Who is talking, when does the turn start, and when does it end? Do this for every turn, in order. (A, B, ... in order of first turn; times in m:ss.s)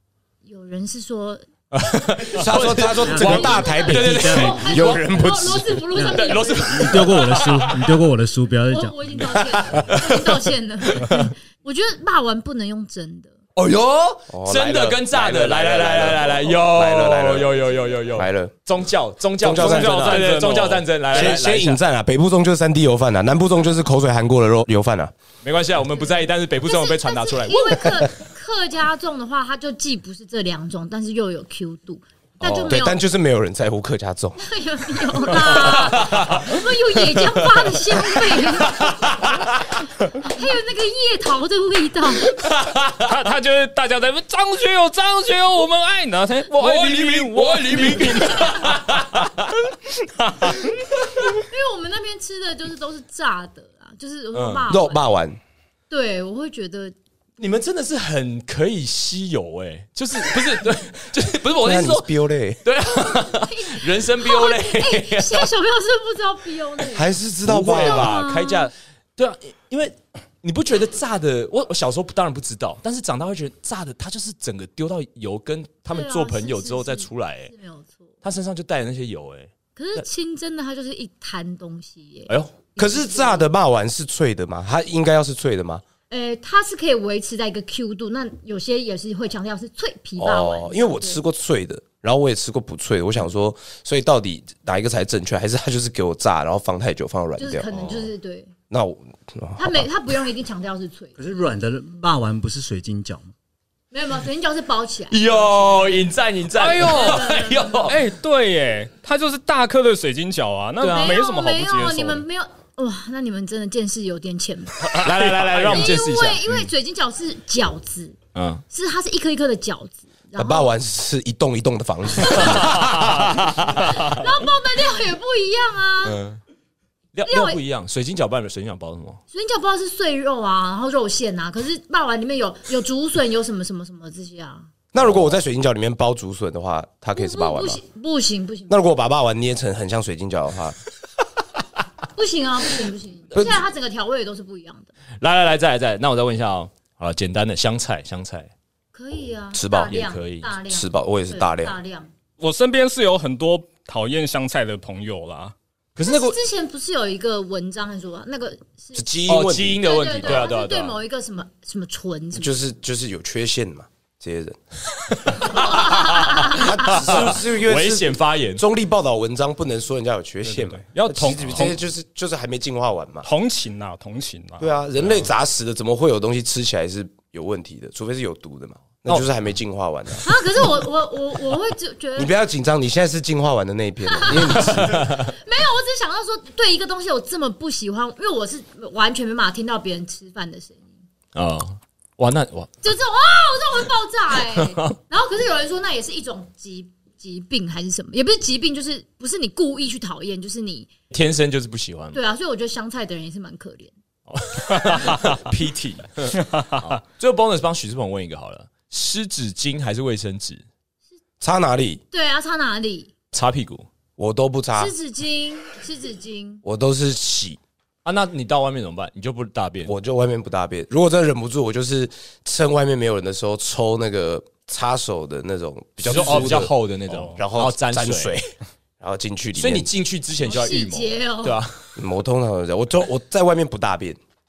0:00.4-0:01.4 A
0:01.7-0:05.1 B
0:02.3-0:05.9 C
0:02.9-0:04.6 D
0:03.0-0:07.3 A
0:05.9-0:09.2 D
0:06.0-0:07.8 B
0:08.7-0:13.4 A
0:09.7-0:10.3 B
0:10.9-0:11.3 B
0:13.6-0:21.8 B
0:14.3-0:18.5 C
0:19.4-0:20.5 C
0:19.6-0:21.3 E
0:21.1-0:25.1 C
0:25.4-0:28.0 B
0:26.6-0:33.0 A
0:32.4-0:32.7 B
0:32.6-0:34.4 C
0:34.4-0:39.1 A
0:35.3-0:39.7 B
0:40.2-0:42.4 A
0:42.4-0:43.1 B
0:43.0-0:49.0 E
0:46.5-0:49.6 B
0:49.6-0:51.4 E
0:51.4-0:55.1 A
0:54.3-0:54.7 B
0:54.7-0:55.4 C
0:55.9-0:56.9 A
0:57.4-1:05.5 B
1:01.6-1:02.6 C
1:03.0-1:07.2 A
1:06.9-1:08.1 C
1:07.4-1:17.5 B
1:07.7-1:08.7 A
1:15.9-1:18.1 A
1:18.2-1:20.0 B
1:19.8-1:23.5 A
1:22.3-1:22.5 B
1:22.8-1:25.8 C
1:26.1-1:31.2 A
1:30.2-1:38.0 C
1:37.4-1:38.5 A
1:37.8-1:38.0 B
1:38.7-1:39.9 C
1:39.6-1:41.3 A
1:41.2-1:43.3 D
1:43.9-1:46.1 A
1:45.1-1:48.0 B
1:46.5-1:52.2 E
1:46.8-1:47.9 A
1:50.8-1:51.2 B
1:50.9-1:58.2 A
1:54.8-1:56.7 B
1:55.0-1:55.9 E
1:58.3-1:58.6 B
1:58.7-2:00.7 A
2:00.4-2:02.9 C
2:02.3-2:02.6 A
2:02.3-2:04.3 B
2:03.8-2:06.2 A
2:06.0-2:06.4 B
2:07.1-2:09.2 B
2:07.3-2:07.6 A
2:09.3-2:14.7 A
2:14.9-2:17.8 C
2:15.0-2:15.2 B
2:17.1-2:18.8 A
2:18.7-2:20.8 C
2:22.1-2:24.9 A
2:25.2-2:28.5 B
2:28.9-2:32.1 A
2:29.5-2:30.0 C
2:29.9-2:30.5 B
2:30.7-2:31.7 C
2:32.4-2:35.5 E
2:36.0-2:36.4 B
2:36.0-2:39.1 A
2:38.9-2:40.4 C
2:39.2-2:41.0 B
2:39.8-2:42.6 A
2:42.3-2:44.6 C
2:45.0-2:48.6 B
2:45.5-2:46.7 A
2:46.4-2:53.3 C
2:50.4-2:50.8 E
2:51.0-2:51.8 B
2:51.4-2:51.8 E
2:53.2-2:55.2 E
2:54.6-3:00.3 C
2:59.0-2:59.3 B
3:00.2-3:02.3 A
3:02.2-3:05.1 C
3:04.0-3:11.0 A
3:04.6-3:05.3 B
3:11.3-3:12.7 B
3:12.8-3:20.9 A
3:14.5-3:15.0 B
3:21.1-3:22.2 B
3:22.1-3:23.9 A
3:24.3-3:30.6 B
3:24.9-3:25.4 E
3:26.4-3:26.8 E
3:31.4-3:32.0 C
3:32.1-3:33.1 A
3:33.3-3:33.9 B
3:34.2-3:34.9 C
3:34.8-3:36.6 A
3:36.6-3:37.6 C
3:38.0-3:39.9 B
3:39.8-3:46.7 C
3:46.0-3:48.4 B
3:46.1-3:47.4 E
3:47.4-3:49.9 C
3:49.5-3:52.0 B
3:50.4-3:51.6 A
3:52.0-3:54.2 C